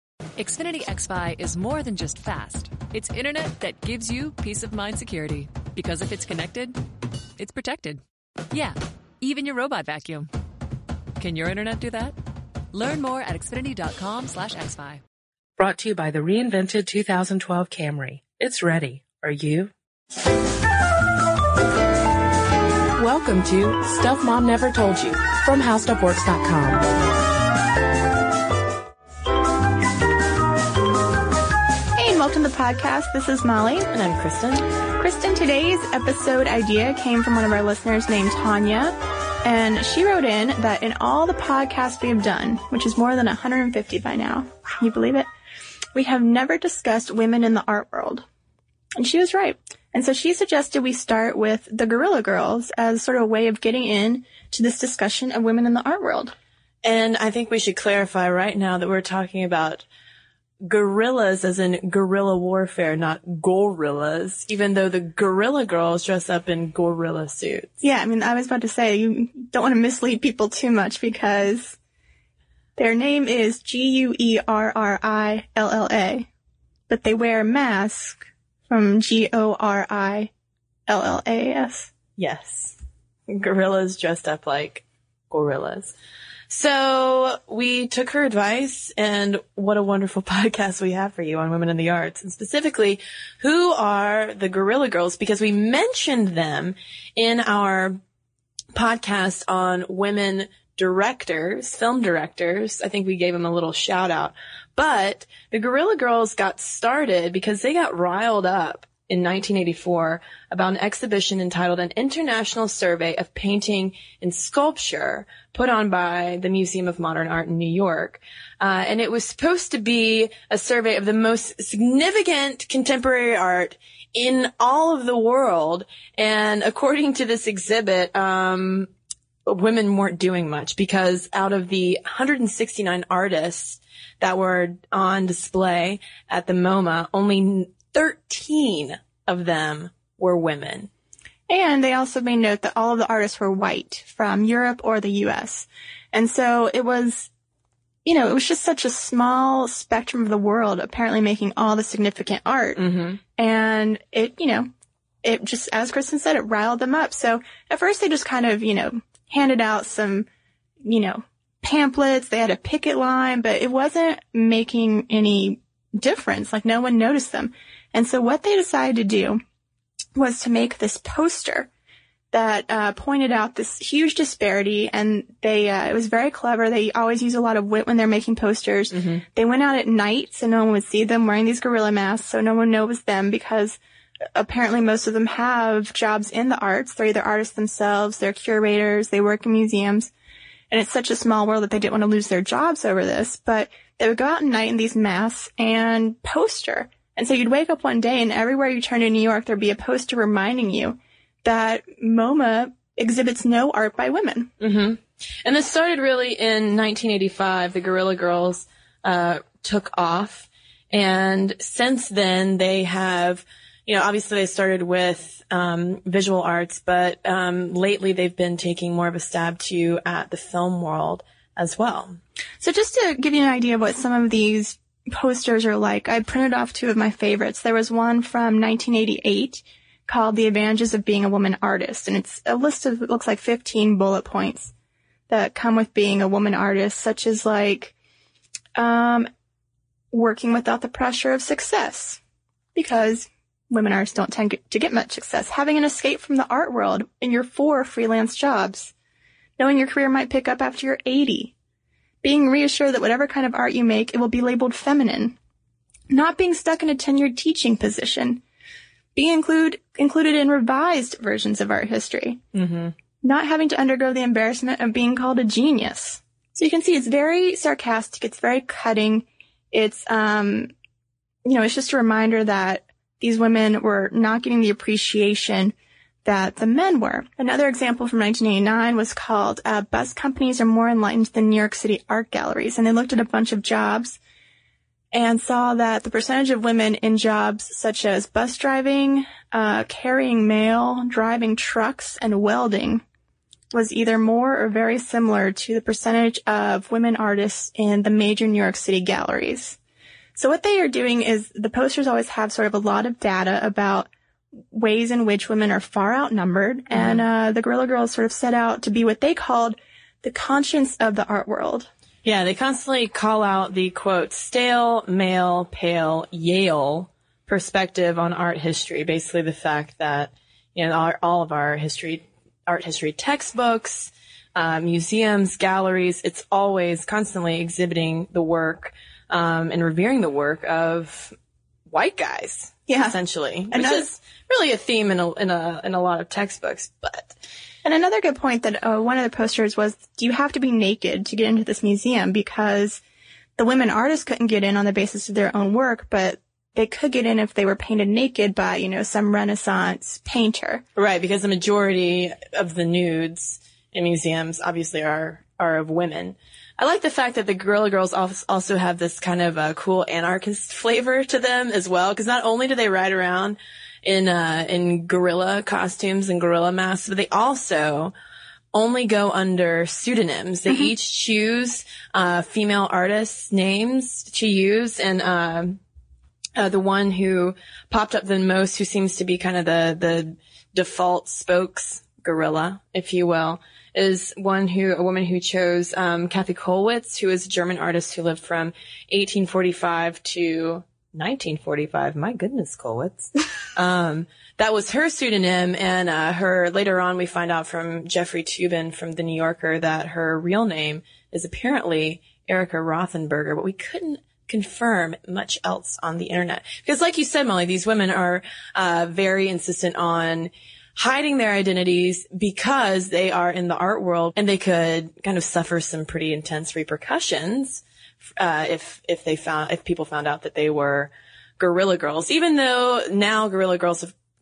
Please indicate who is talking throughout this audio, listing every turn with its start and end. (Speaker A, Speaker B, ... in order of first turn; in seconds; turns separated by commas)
Speaker A: 0.4-6.8, Speaker A: 7.4-10.3, Speaker A: 11.2-12.2, Speaker A: 12.7-15.0, Speaker B: 15.6-19.7, Speaker B: 23.0-26.9, Speaker C: 32.0-33.9, Speaker D: 33.9-34.6, Speaker C: 35.0-45.3, Speaker C: 46.0-48.2, Speaker C: 49.0-56.3, Speaker D: 56.8-59.9, Speaker D: 60.6-67.8, Speaker C: 67.8-71.8, Speaker C: 72.8-76.3, Speaker C: 76.9-80.3, Speaker C: 80.9-81.9, Speaker D: 82.2-82.8, Speaker D: 83.3-85.9, Speaker D: 86.5-98.0, Speaker D: 98.8-128.9, Speaker D: 129.5-140.9, Speaker C: 141.5-147.3, Speaker C: 148.1-152.8, Speaker D: 152.8-153.2, Speaker C: 153.4-154.7, Speaker C: 155.2-160.3, Speaker C: 160.8-169.4, Speaker C: 170.2-171.7, Speaker C: 172.3-183.8, Speaker D: 178.9-179.2, Speaker C: 184.3-190.1, Speaker C: 190.7-204.5, Speaker D: 204.6-222.2, Speaker C: 222.6-234.7, Speaker C: 235.3-237.9, Speaker C: 238.8-239.3, Speaker C: 240.1-242.2, Speaker C: 242.8-248.9, Speaker C: 249.6-251.5, Speaker C: 252.2-255.4, Speaker C: 256.1-258.4, Speaker C: 259.1-262.4, Speaker D: 262.6-262.9, Speaker C: 263.2-270.7, Speaker C: 271.4-284.2, Speaker C: 285.1-293.0, Speaker C: 293.7-299.8, Speaker C: 300.4-304.1, Speaker C: 304.7-311.9, Speaker D: 306.9-307.2, Speaker D: 312.2-331.3, Speaker D: 331.9-337.3, Speaker C: 332.9-333.2, Speaker C: 333.7-334.1, Speaker C: 337.8-343.0, Speaker C: 343.6-350.8, Speaker D: 351.0-368.1, Speaker D: 368.7-375.8, Speaker D: 376.6-417.8, Speaker D: 418.4-424.1